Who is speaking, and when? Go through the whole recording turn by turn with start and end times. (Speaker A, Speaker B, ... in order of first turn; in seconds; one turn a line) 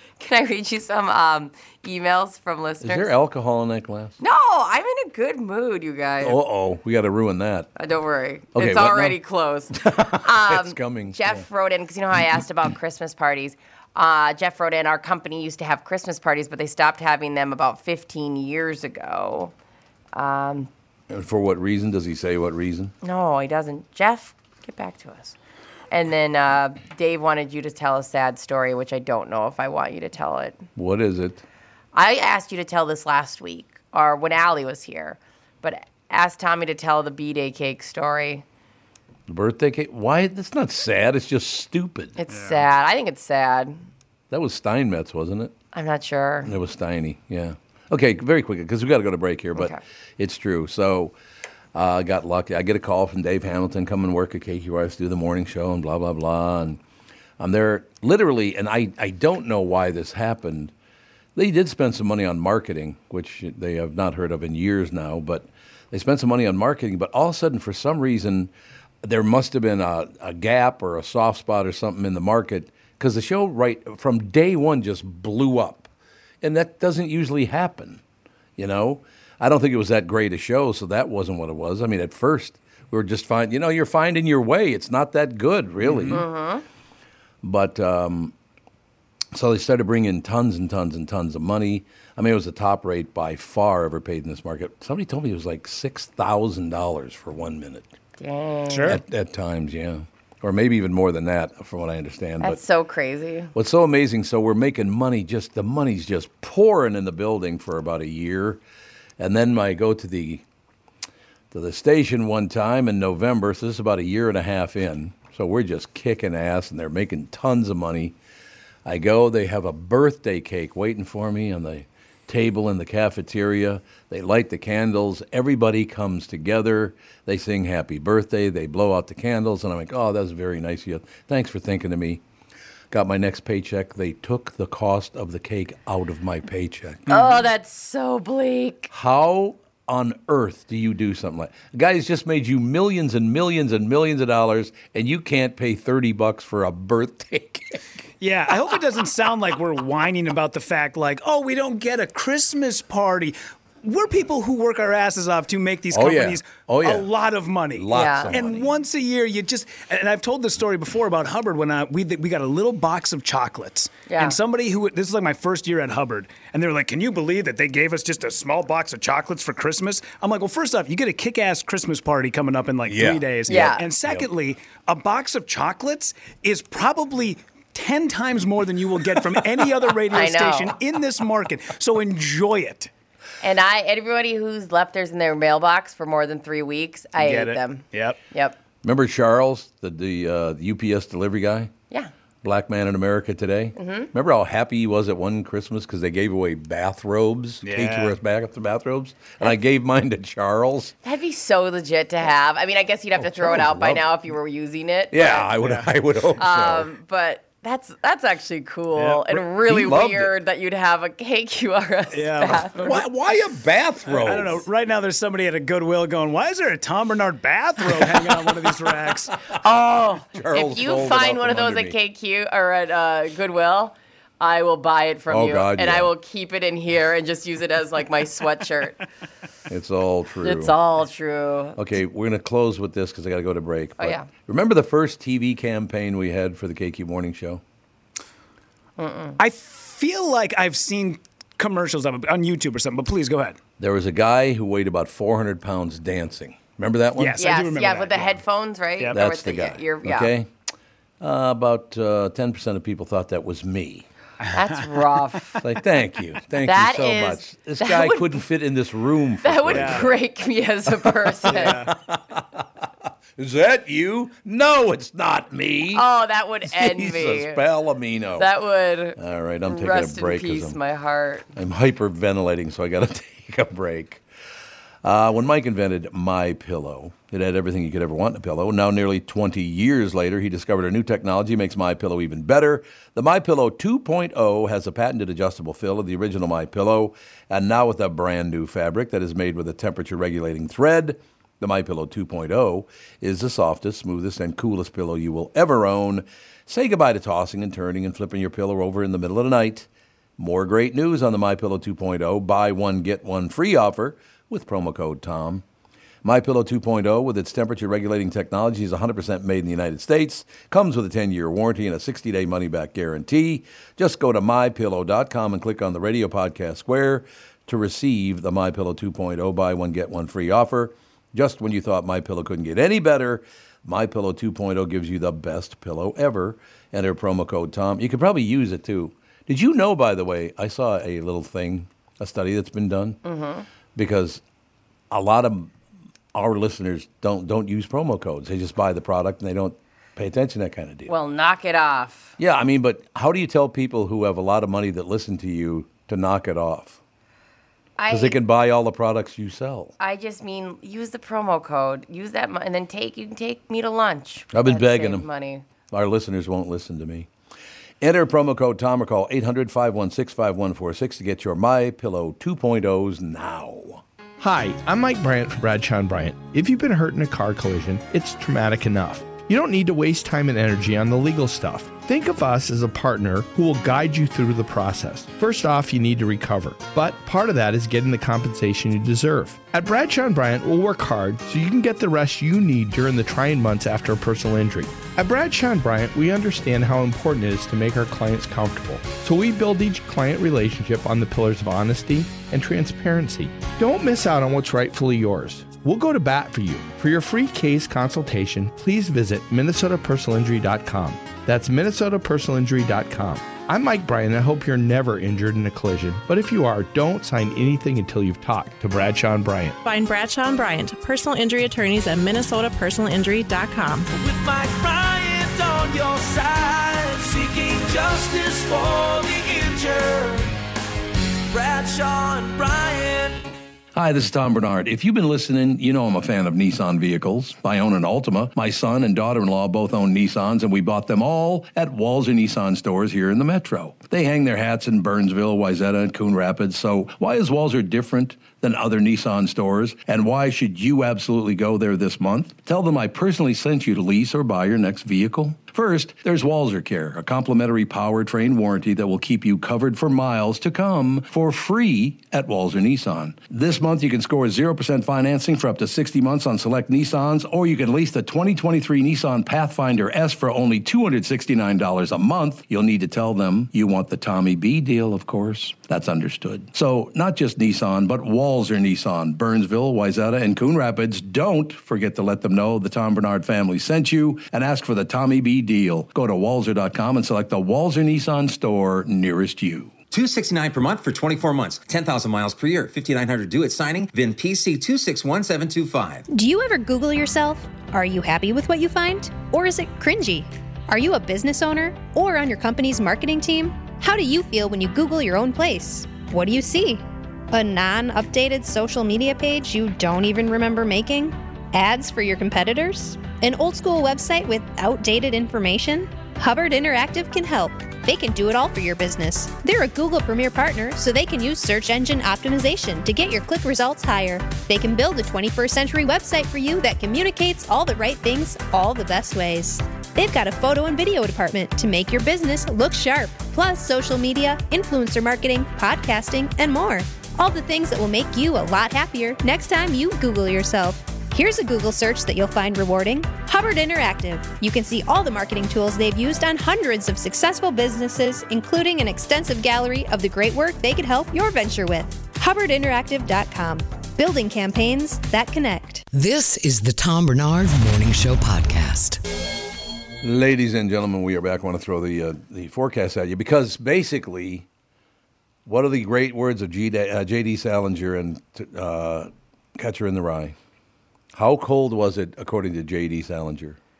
Speaker A: 0.2-3.1
Speaker B: 2.8-4.2
Speaker A: 4.2-6.4
Speaker B: 6.2-7.7
Speaker A: 7.8-19.5
Speaker B: 8.5-9.2
Speaker B: 9.7-11.4
Speaker A: 20.1-20.7
Speaker B: 21.1-22.9
Speaker A: 23.0-25.4
Speaker A: 25.9-30.6
Speaker B: 30.8-31.4
Speaker A: 31.9-38.4
Speaker B: 39.3-42.1
Speaker A: 42.2-43.8
Speaker C: 42.3-42.6
Speaker B: 44.3-45.5
Speaker A: 45.7-46.5
Speaker B: 46.4-51.1
Speaker B: 51.7-56.8
Speaker B: 57.4-60.7
Speaker B: 61.4-68.5
Speaker B: 69.0-75.9
Speaker B: 76.4-78.0
Speaker B: 78.6-86.2
Speaker C: 85.8-86.2
Speaker A: 86.1-86.6
Speaker B: 87.4-88.3
Speaker B: 89.3-97.9
Speaker A: 98.2-99.0
Speaker C: 98.7-99.0
Speaker B: 98.9-102.6
Speaker A: 102.4-103.5
Speaker B: 103.5-108.6
Speaker B: 109.2-110.4
Speaker B: 111.5-118.2
Speaker B: 118.8-132.2
Speaker B: 132.9-137.2
Speaker A: 137.1-138.9
Speaker B: 138.9-147.8
Speaker C: 148.2-182.9
Speaker B: 155.9-157.1
Speaker B: 157.7-158.7
Speaker A: 157.9-158.3
Speaker A: 164.1-164.3
Speaker B: 172.9-174.3
Speaker A: 173.5-173.8
Speaker A: 180.1-180.7
Speaker A: 183.4-188.6
Speaker C: 187.2-188.2
Speaker B: 188.8-191.7
Speaker B: 192.4-200.9
Speaker A: 193.8-194.1
Speaker C: 197.6-198.2
Speaker A: 201.0-205.5
Speaker B: 203.2-204.2
Speaker B: 205.1-206.9
Speaker C: 205.6-205.9
Speaker A: 206.4-212.8
Speaker C: 209.0-209.4
Speaker B: 209.6-210.3
Speaker C: 212.1-213.1
Speaker B: 212.8-214.6
Speaker C: 214.1-219.3
Speaker B: 219.5-222.0
Speaker A: 219.7-229.0
Speaker B: 225.3-226.1
Speaker B: 229.7-230.8
Speaker A: 230.4-231.8
Speaker B: 231.8-237.6
Speaker A: 234.0-234.3
Speaker A: 239.0-239.4
Speaker C: 239.4-243.6
Speaker B: 243.8-247.4
Speaker C: 247.2-248.4
Speaker A: 247.4-250.3
Speaker B: 249.1-250.5
Speaker B: 251.2-254.1
Speaker C: 254.4-254.9
Speaker A: 254.5-255.6
Speaker B: 255.6-260.2
Speaker A: 256.6-258.3
Speaker A: 259.4-261.8
Speaker C: 259.7-260.1
Speaker B: 260.9-266.1
Speaker C: 261.5-261.9
Speaker A: 265.9-267.6
Speaker B: 266.7-268.5
Speaker A: 268.4-271.5
Speaker B: 269.2-270.8
Speaker B: 271.5-274.2
Speaker B: 275.0-305.6
Speaker B: 306.2-333.2
Speaker A: 333.2-333.7
Speaker B: 333.9-334.4
Speaker B: 335.1-335.7
Speaker B: 336.3-341.1
Speaker A: 341.1-342.4
Speaker B: 342.4-347.0
Speaker A: 348.0-348.4
Speaker B: 348.1-349.9
Speaker A: 350.0-355.6
Speaker B: 354.5-355.3
Speaker B: 355.9-357.3
Speaker B: 358.0-364.0
Speaker D: 364.4-409.8
Speaker E: 409.8-414.1
Speaker F: 414.1-420.6
Speaker F: 421.5-423.4
Speaker B: 423.9-479.9
Speaker G: 480.1-486.3
Speaker H: 486.3-546.0
Speaker I: 546.1-549.2
Speaker B: 550.2-554.7
Speaker B: 555.7-560.6
Speaker B: 561.3-563.8